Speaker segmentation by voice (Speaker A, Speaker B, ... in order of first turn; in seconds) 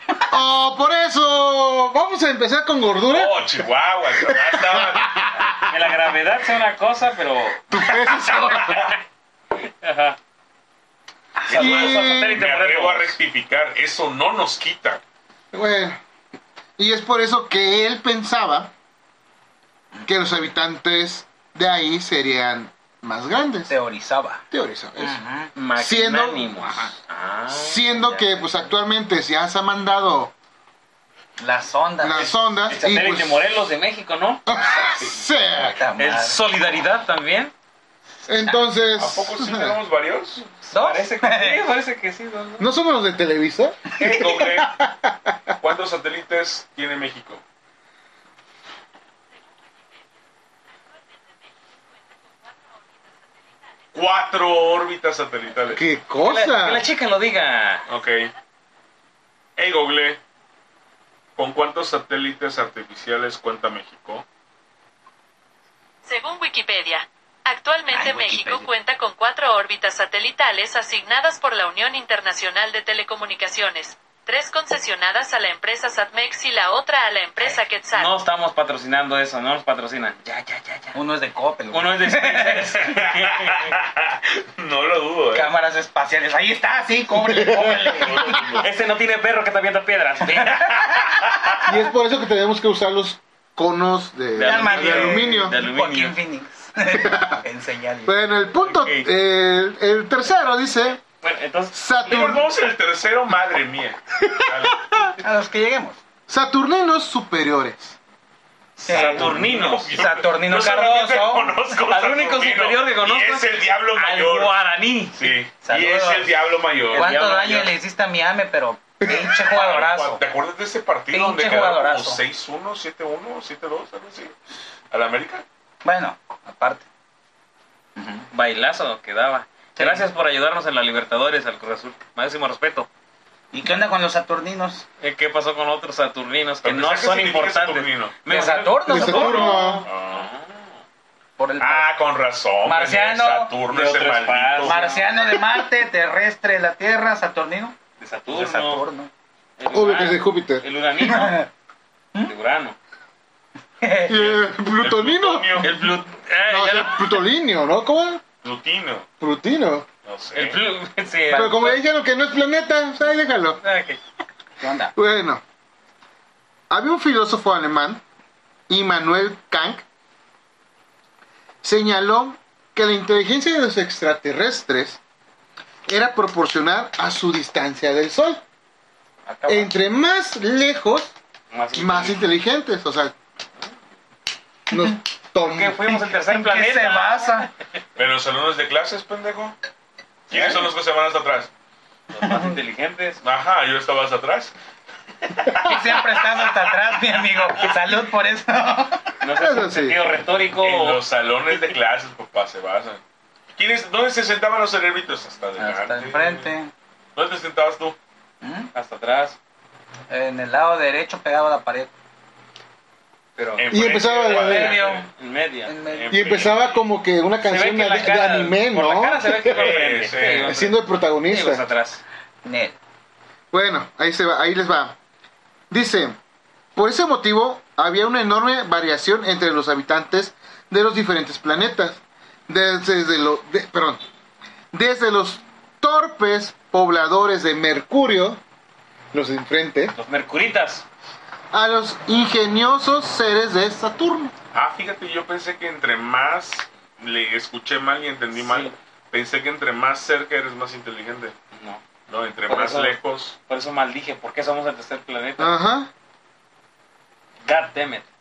Speaker A: 0.3-3.6, 4.1-5.8, 7.7-8.9, 11.5-12.4, 15.5-16.0, 16.8-18.7, 20.1-23.7, 24.5-25.2, 25.8-26.5, 27.5-30.3, 32.0-33.4, 34.5-35.8, 38.3-39.8, 42.6-45.5, 55.7-56.9, 87.3-88.6, 91.6-95.5, 96.9-97.4, 98.0-101.0, 101.7-102.5, 104.4-104.9, 106.3-108.0, 138.9-139.9, 149.7-150.6, 154.1-155.9, 156.5-158.2, 159.2-159.9, 161.3-163.6, 164.9-165.4, 166.7-168.0, 168.7-169.8, 171.6-175.0, 175.9-178.4, 179.5-181.1, 181.7-183.1, 184.7-186.0, 199.3-200.0, 213.7-214.7, 216.1-219.7, 220.4-221.6, 223.5-225.0, 225.7-226.2, 226.8-234.1, 234.7-238.4, 239.1-239.9, 241.5-244.3, 255.4-255.9
Speaker B: 3.1-5.3, 8.4-8.9, 11.5-15.0, 34.9-35.2, 39.0-40.5, 44.0-44.8, 45.6-47.4, 53.9-55.8, 57.9-58.3, 59.6-60.2, 61.4-64.2, 82.9-85.5, 88.0-88.6, 102.0-105.1, 108.9-114.5, 115.1-117.1, 119.3-124.3, 124.9-125.5, 136.6-138.1, 139.8-140.3, 141.6-144.8, 154.1-155.7, 158.4-159.1, 160.1-160.6, 188.0-189.6, 190.3-191.5, 193.2-194.5, 200.6-203.0, 203.6-206.5, 207.2-208.0, 213.6-215.1, 216.1-216.6, 219.4-220.6, 244.5-251.4, 252.1-253.4
Speaker C: 5.6-7.7, 9.6-10.2, 11.5-13.2, 25.6-28.6, 32.7-34.4, 36.0-37.5, 40.6-42.6, 56.2-57.8, 77.9-81.0, 81.7-83.7, 87.5-90.8, 94.3-96.2, 98.6-99.1, 101.2-102.2, 108.8-110.0, 111.8-115.4, 116.9-117.7, 128.3-132.9, 135.0-140.6, 143.7-145.4, 148.0-148.8, 149.6-151.4, 152.2-152.8, 155.6-157.2, 160.3-161.8, 163.6-164.0, 181.5-182.2, 185.4-187.4, 192.1-193.2, 199.2-201.0, 208.7-209.4, 213.4-213.7, 214.3-216.8, 217.4-222.0, 239.9-240.9, 248.3-248.7, 251.5-251.8, 252.5-253.0, 253.5-255.5, 257.4-258.1
Speaker D: 23.7-24.4, 25.0-25.5, 31.4-32.3, 35.5-36.4, 40.7-41.6, 67.9-68.7, 80.9-82.9, 85.3-88.4, 90.5-91.1, 94.4-98.1, 105.2-106.0, 108.8-109.4, 109.9-111.7, 115.6-120.2, 121.1-122.2, 125.8-126.9, 128.0-128.3, 129.8-130.1, 133.5-134.9, 138.3-139.8, 141.4-141.9, 142.6-143.5, 144.6-147.8, 148.3-149.1, 151.0-151.5, 153.8-154.1, 164.6-164.9, 179.3-179.7, 186.1-187.5, 195.6-199.1, 205.6-206.7, 208.4-208.7, 210.1-211.9, 214.3-215.1, 215.7-216.1, 222.4-222.8
Speaker E: 66.0-78.1